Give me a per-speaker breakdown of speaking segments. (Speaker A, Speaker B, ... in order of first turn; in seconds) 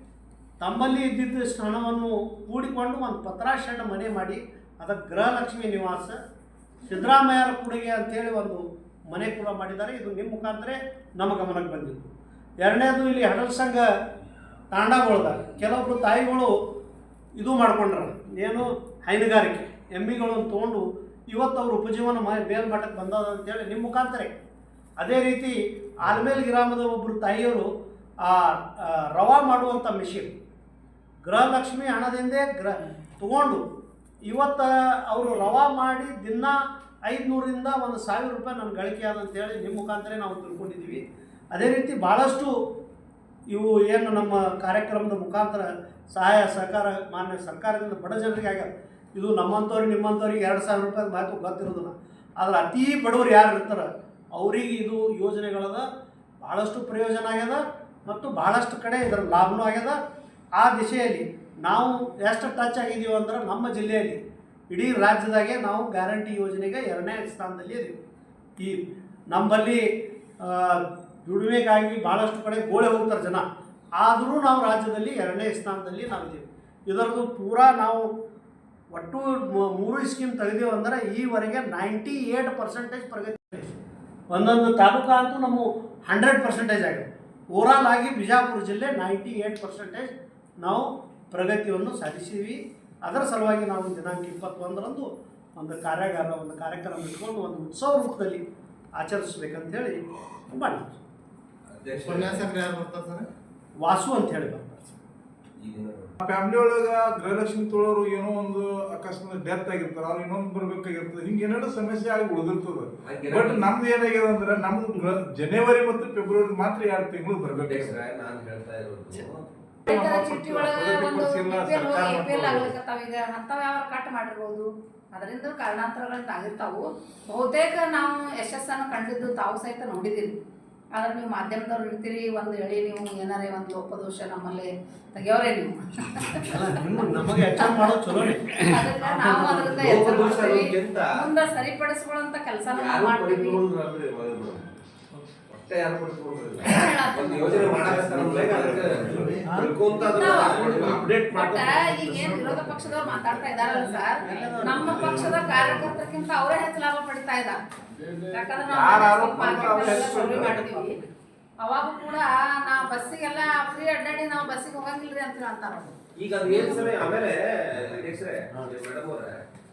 Speaker A: 0.6-6.2, 6.8-12.1, 12.6-13.9, 14.7-16.5, 17.4-24.3, 25.0-27.7, 28.2-30.3, 31.2-33.6, 34.3-42.5, 43.5-55.9, 56.4-60.0, 60.6-68.0, 68.6-69.9, 70.4-73.5, 74.0-78.1, 78.9-83.7, 84.3-90.1, 90.6-98.4, 99.0-101.0, 103.8-105.0, 136.4-139.9, 149.4-149.8, 153.5-155.6
Speaker B: 101.7-102.7, 105.6-106.1, 113.0-113.7, 117.5-119.5, 139.7-141.2, 142.7-144.8, 145.5-153.1, 158.7-159.1, 159.6-160.6, 166.2-169.5
Speaker C: 101.9-103.3, 147.5-151.3, 154.8-156.0
Speaker D: 106.2-118.0, 119.9-122.7, 158.8-160.6
Speaker E: 119.9-130.4, 130.9-137.9, 138.6-143.6, 146.7-148.0, 150.1-157.6, 158.3-161.0, 161.6-167.0